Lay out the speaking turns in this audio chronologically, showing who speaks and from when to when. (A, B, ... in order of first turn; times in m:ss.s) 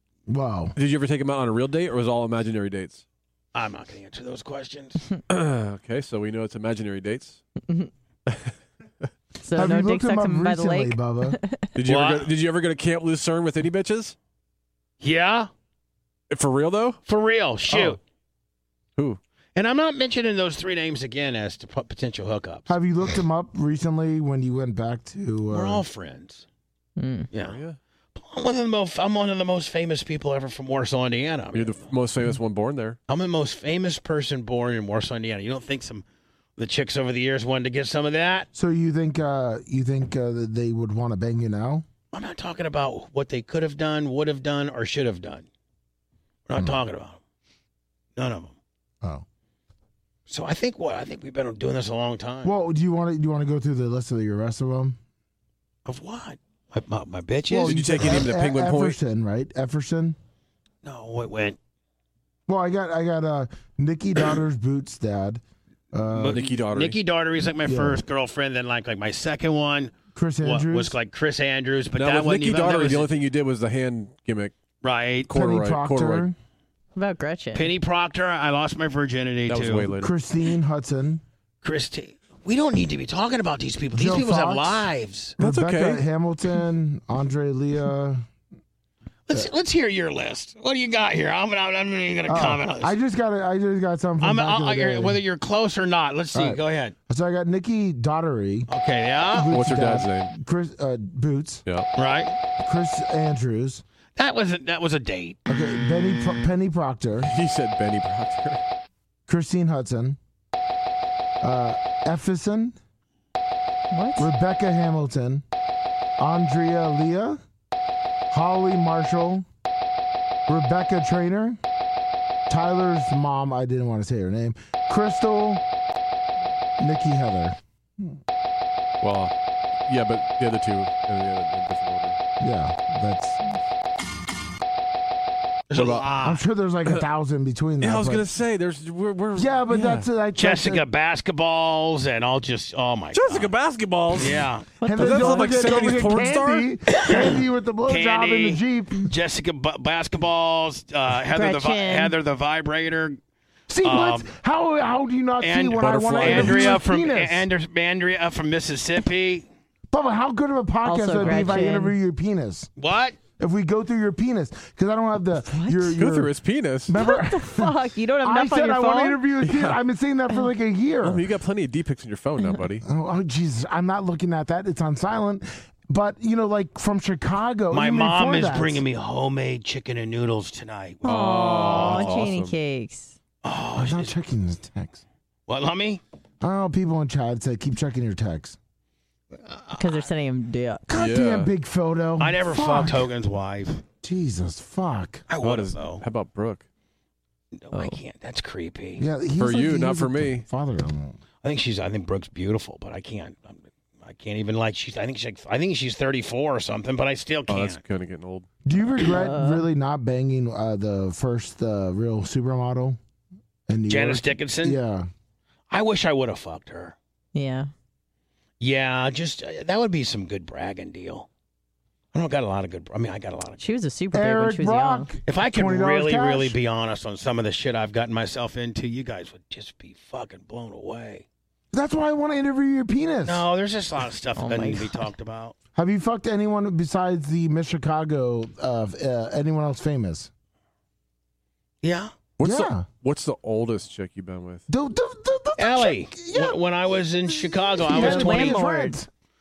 0:00.3-0:00.7 A
0:00.8-0:03.0 B
0:03.5-0:05.0 C
0:05.3-0:07.4 B
0:07.6-0:07.9 D
0:08.3-0:09.0 B
0:09.4-0:11.7 D
0:09.5-0:11.4 A
0:11.8-0:14.1 B
0:11.8-0:12.3 C
0:15.0-0:15.5 C
0:16.3-0:17.0 B
0:17.1-0:18.0 C
0:17.7-0:18.0 B
0:19.5-0:22.7 C
0:22.7-0:25.8 A
0:25.5-0:26.4 C
0:27.0-0:27.3 D
0:27.3-0:27.6 C
0:27.4-0:27.8 B
0:28.1-0:31.7 C
0:31.5-0:33.0 B
0:33.1-0:36.0 C
0:36.6-0:38.5 C
0:38.5-0:41.8 A
0:42.1-0:45.4 C
0:46.5-0:47.2 C
0:48.2-0:48.5 C
0:50.3-0:52.5 C
0:52.4-0:55.0 A
0:55.8-0:58.1 C
0:57.5-1:00.2 A
0:57.6-0:59.0 B
1:00.8-1:01.6 C
1:02.5-1:05.4 A
1:05.9-1:06.4 A
1:06.1-1:13.1 C
1:06.3-1:07.0 B
1:07.6-1:08.0 A
1:10.1-1:10.9 A
1:11.9-1:14.5 B
1:14.8-1:15.3 C
1:15.3-1:16.3 B
1:15.3-1:16.3 A
1:17.0-1:17.7 D
1:17.5-1:19.9 C
1:19.5-1:20.1 B
1:20.0-1:21.2 A
1:21.6-1:25.4 C
1:23.9-1:28.2 A
1:25.4-1:26.0 B
1:29.3-1:32.9 C
1:32.3-1:35.2 A
1:34.2-1:36.9 C
1:36.3-1:38.7 A
1:38.7-1:39.5 C
1:39.3-1:41.6 A
1:39.5-1:40.3 B
1:42.0-1:42.4 C
1:42.6-1:43.8 A
1:44.2-1:45.4 C
1:45.5-1:47.3 A
1:47.2-1:48.6 B
1:49.3-1:50.2 A
1:51.4-1:52.8 A
1:53.9-1:54.3 D
1:54.2-1:55.4 A
1:56.2-1:57.4 A
1:58.3-1:59.4 A
2:00.5-2:01.6 A
2:02.5-2:05.6 A
2:06.8-2:08.2 A
2:09.0-2:09.3 B
2:09.8-2:12.2 B
2:12.4-2:13.6 A
2:15.7-2:16.4 C
2:15.7-2:16.0 B
2:16.2-2:18.2 A
2:17.8-2:20.0 B
2:19.4-2:20.8 A
2:20.3-2:23.5 C
2:23.1-2:26.7 B
2:24.1-2:24.7 C
2:24.8-2:25.9 D
2:24.8-2:29.0 A
2:26.9-2:27.3 C
2:27.8-2:33.2 C
2:31.3-2:32.1 D
2:33.7-2:37.5 A
2:33.8-2:34.3 C
2:35.4-2:39.4 C
2:35.8-2:36.8 B
2:39.9-2:42.7 A
2:40.8-2:42.0 D
2:42.8-2:43.2 C
2:43.4-2:46.3 A
2:45.5-2:45.9 D
2:46.0-2:46.9 B
2:46.8-2:51.2 A
2:47.0-2:49.2 D
2:49.4-2:49.8 B
2:51.0-2:52.8 B
2:52.8-2:58.8 A
2:57.7-3:02.1 C
3:01.0-3:03.2 D
3:01.0-3:02.5 B
3:03.4-3:04.1 C
3:03.7-3:05.0 A
3:05.5-3:06.0 C
3:06.4-3:08.6 A
3:09.3-3:10.1 C
3:09.8-3:10.9 D
3:10.9-3:13.1 A
3:10.9-3:11.5 B
3:12.2-3:13.8 C
3:14.0-3:15.2 A
3:15.3-3:16.0 C
3:15.4-3:16.6 B
3:17.5-3:19.0 C
3:17.7-3:18.0 D
3:19.0-3:21.2 A
3:19.4-3:20.4 B
3:21.4-3:27.8 C
3:27.5-3:28.5 B
3:28.6-3:33.0 A
3:29.1-3:29.6 D
3:33.7-3:35.1 A
3:33.9-3:34.8 C
3:35.7-3:37.0 C
3:37.3-3:37.7 D
3:38.6-3:41.3 C
3:42.1-3:43.6 C
3:43.6-3:45.1 D
3:44.1-3:46.6 A
3:45.2-3:51.2 C
3:51.7-3:53.4 A
3:53.2-3:55.5 C
3:54.4-3:55.1 D
3:55.7-4:00.3 A
4:01.8-4:02.1 C
4:02.4-4:04.6 B
4:02.4-4:02.8 A
4:04.7-4:06.6 A
4:05.6-4:08.6 C
4:07.3-4:09.1 A
4:07.8-4:09.0 D